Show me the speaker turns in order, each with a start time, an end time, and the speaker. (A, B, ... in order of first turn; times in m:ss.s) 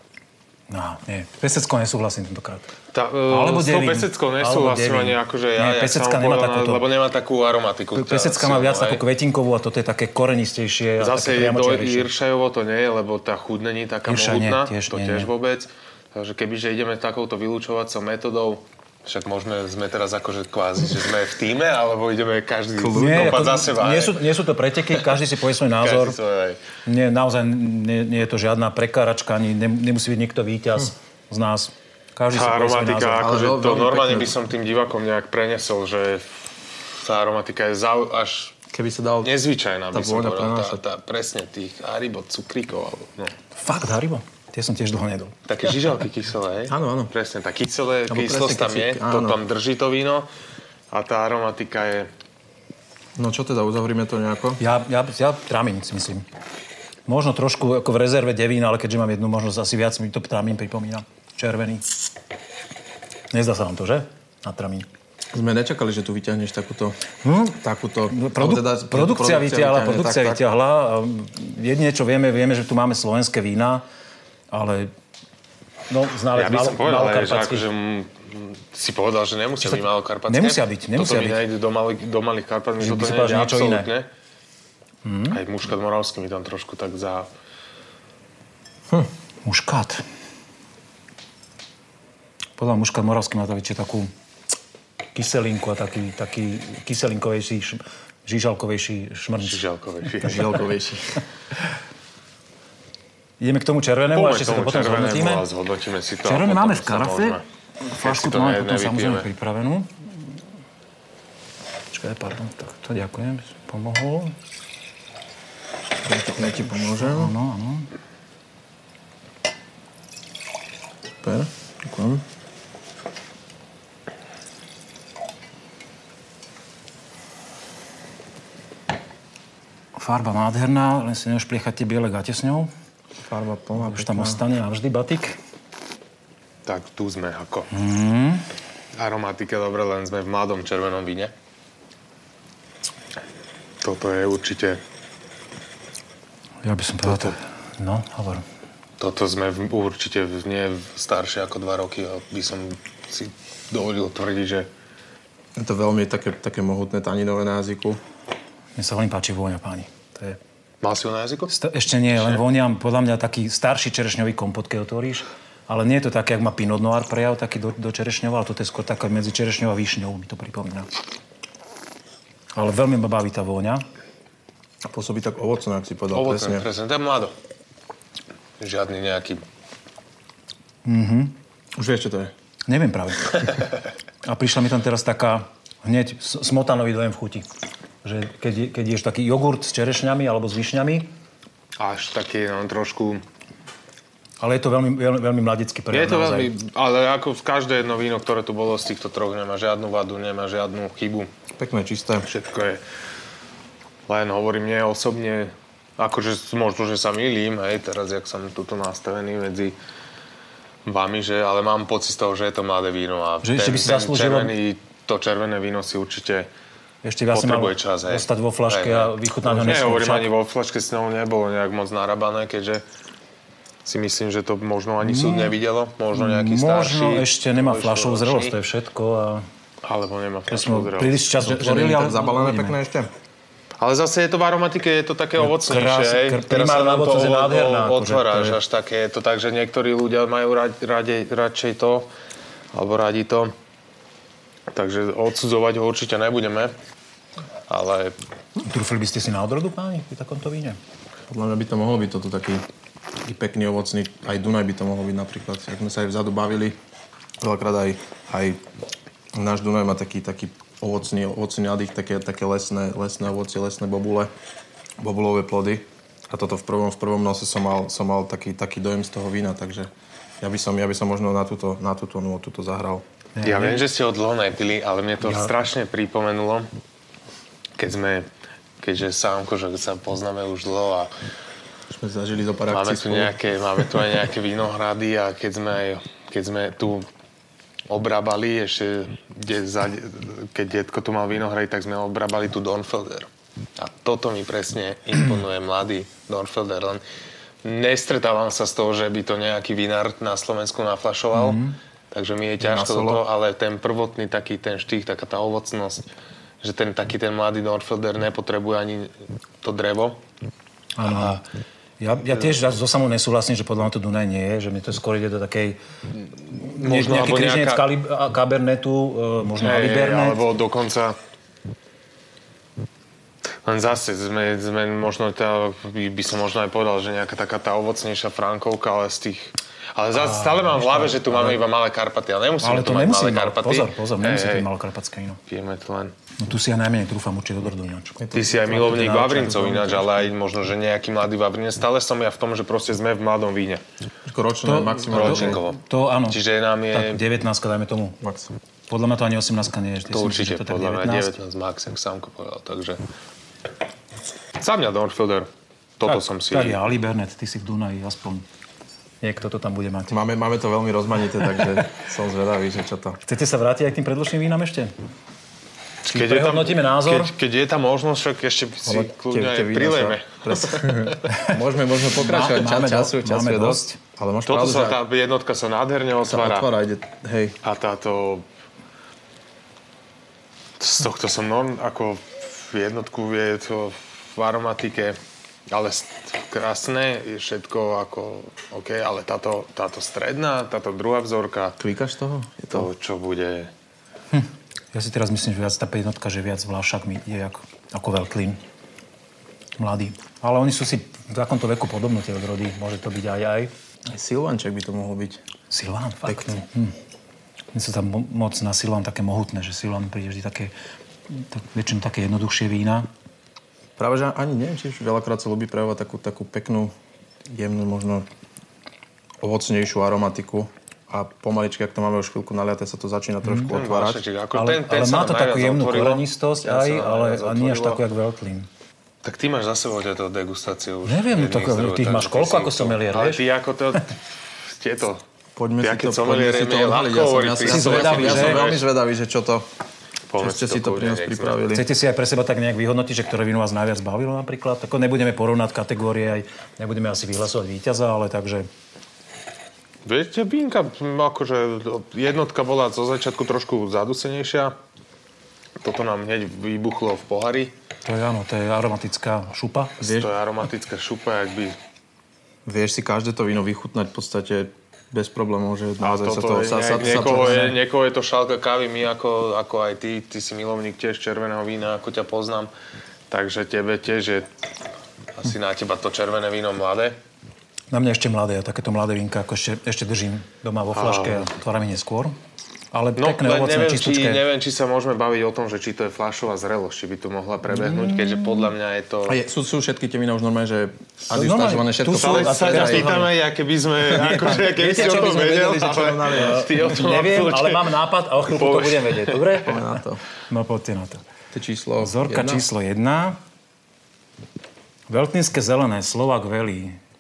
0:00.7-0:02.7 A
0:02.9-0:09.0 B
0:03.3-0:06.8 A
0:08.0-0:12.1 A
0:11.0-0:24.3 B
0:14.1-0:15.3 A
0:22.8-0:23.6 C
0:22.9-0:26.2 A
0:25.8-0:26.6 B
0:26.8-0:33.3 A
0:32.3-0:38.6 B
0:33.2-0:34.4 C
0:38.7-0:39.4 C
0:39.2-0:43.3 B
0:39.9-0:40.8 C
0:43.6-0:45.4 A
0:45.5-0:50.3 B
0:46.7-0:47.1 C
0:48.1-0:49.4 C
0:50.9-0:52.1 B
0:53.2-0:54.6 C
0:54.6-0:56.3 A
0:57.1-1:01.9 A
1:03.3-1:04.9 A
1:05.3-1:07.0 C
1:07.2-1:07.6 A
1:07.6-1:10.4 C
1:08.1-1:13.8 A
1:14.5-1:14.9 A
1:15.9-1:17.7 A
1:16.3-1:24.1 B
1:19.6-1:21.4 A
1:22.8-1:23.9 A
1:25.0-1:25.4 A
1:25.3-1:27.3 B
1:29.4-1:30.0 A
1:32.6-1:34.1 A
1:35.2-1:39.6 A
1:39.4-1:40.6 B
1:40.2-1:41.2 C
1:43.4-1:45.5 A
1:44.1-1:47.4 B
1:46.2-1:50.1 A
1:48.0-1:49.3 B
1:51.9-1:54.4 A
1:56.0-1:57.3 C
1:56.7-1:57.9 A
2:01.2-2:02.2 C
2:10.0-2:12.7 A
2:13.2-2:14.4 C
2:13.8-2:15.4 A
2:16.6-2:17.7 B
2:17.7-2:18.5 A
2:19.0-2:21.3 B
2:23.8-2:24.8 B
2:26.6-2:28.4 A
2:27.1-2:27.3 B
2:29.0-2:34.7 B
2:35.6-2:38.0 C
2:38.8-2:40.4 A
2:40.8-2:41.5 B
2:41.5-2:50.9 A
2:42.1-2:42.4 B
2:52.6-2:53.8 A
2:54.9-2:56.7 C
2:56.1-2:57.3 B
2:58.6-2:59.4 B
3:00.8-3:01.4 A
3:01.8-3:02.3 C
3:02.7-3:03.7 A
3:04.2-3:07.5 A
3:08.0-3:11.1 A
3:11.8-3:13.2 B
3:14.4-3:16.5 A
3:15.9-3:21.3 B
3:21.5-3:22.3 C
3:22.2-3:22.8 B
3:24.1-3:29.8 B
3:30.8-3:36.5 B
3:33.4-3:34.5 A
3:37.0-3:40.3 A
3:37.3-3:42.8 B
3:43.8-3:48.6 B
3:45.0-3:45.6 A
3:46.1-3:49.5 A
3:49.8-3:51.3 B
3:50.5-3:52.8 A
3:51.4-3:53.1 C
3:53.8-4:02.1 B
3:55.4-3:58.6 A
4:02.7-4:03.5 B
4:04.7-4:06.8 B
4:07.7-4:08.2 B
4:08.6-4:10.8 A
4:11.3-4:12.6 C
4:13.2-4:16.8 C
4:17.4-4:18.6 C
4:19.4-4:24.3 C
4:25.0-4:33.0 C
4:33.4-4:33.9 A
4:33.4-4:36.7 B
4:35.2-4:35.5 A
4:37.8-4:38.3 B
4:38.8-4:41.1 B
4:41.9-4:43.4 C
4:42.7-4:47.1 B
4:47.9-4:57.0 B
4:57.6-5:06.1 B
5:01.3-5:01.8 A
5:02.6-5:03.2 C
5:06.6-5:10.2 B
5:11.0-5:11.4 A
5:11.0-5:11.4 B
5:12.0-5:15.8 A
5:16.5-5:20.4 A
5:16.7-5:17.9 B
5:19.6-5:21.2 B
5:23.6-5:34.7 B
5:30.1-5:31.6 A
5:32.6-5:35.4 A
5:35.5-5:36.1 B
5:36.4-5:38.2 A
5:38.2-5:40.3 C
5:38.3-5:43.8 B
5:38.7-5:39.6 A
5:44.2-5:45.6 C
5:44.6-5:48.2 A
5:45.1-5:47.2 B
5:48.2-5:48.5 C
5:48.9-5:51.4 A
5:50.1-5:53.0 B
5:54.6-5:56.8 B
5:56.1-5:58.4 A
5:59.2-6:00.2 A
6:00.1-6:03.2 C
6:03.2-6:04.9 A
6:06.1-6:11.2 B
6:06.1-6:07.3 A
6:08.8-6:15.0 C
6:11.3-6:11.6 A
6:12.1-6:14.0 A
6:14.5-6:16.7 B
6:16.3-6:17.6 C
6:17.6-6:18.4 B
6:20.8-6:25.2 B
6:25.7-6:31.8 B
6:31.8-6:32.9 C
6:32.7-6:33.7 B
6:34.3-6:38.6 A
6:39.8-6:43.7 A
6:44.1-6:45.4 C
6:45.7-6:47.0 A
6:46.3-6:46.6 C
6:47.7-6:50.7 A
6:51.3-6:53.1 A
6:54.0-6:56.9 C
6:57.4-6:58.3 C
6:59.4-7:04.2 C
7:03.4-7:03.7 A
7:03.7-7:06.3 B
7:04.5-7:08.7 A
7:06.6-7:08.0 C
7:09.2-7:15.2 B
7:11.0-7:13.4 A
7:15.6-7:19.7 C
7:15.8-7:18.9 B
7:17.6-7:18.7 A
7:20.3-7:21.6 B
7:20.4-7:21.9 C
7:21.7-7:28.7 A
7:30.0-7:34.8 B
7:35.8-7:37.7 B
7:38.0-7:40.0 A
7:40.0-7:40.3 C
7:40.0-7:41.8 B
7:42.7-7:47.8 C
7:46.0-7:52.7 B
7:53.3-7:54.5 B
7:55.4-7:57.2 B
7:57.9-8:02.4 A
8:00.9-8:01.5 B
8:02.9-8:04.4 A
8:03.2-8:09.4 B
8:07.8-8:08.7 A
8:09.3-8:13.3 C
8:11.3-8:13.3 A
8:12.1-8:19.4 B
8:14.1-8:15.7 A
8:14.2-8:16.8 C
8:16.3-8:21.2 A
8:19.6-8:20.2 C
8:21.5-8:22.7 C
8:22.0-8:23.4 A
8:25.1-8:27.0 A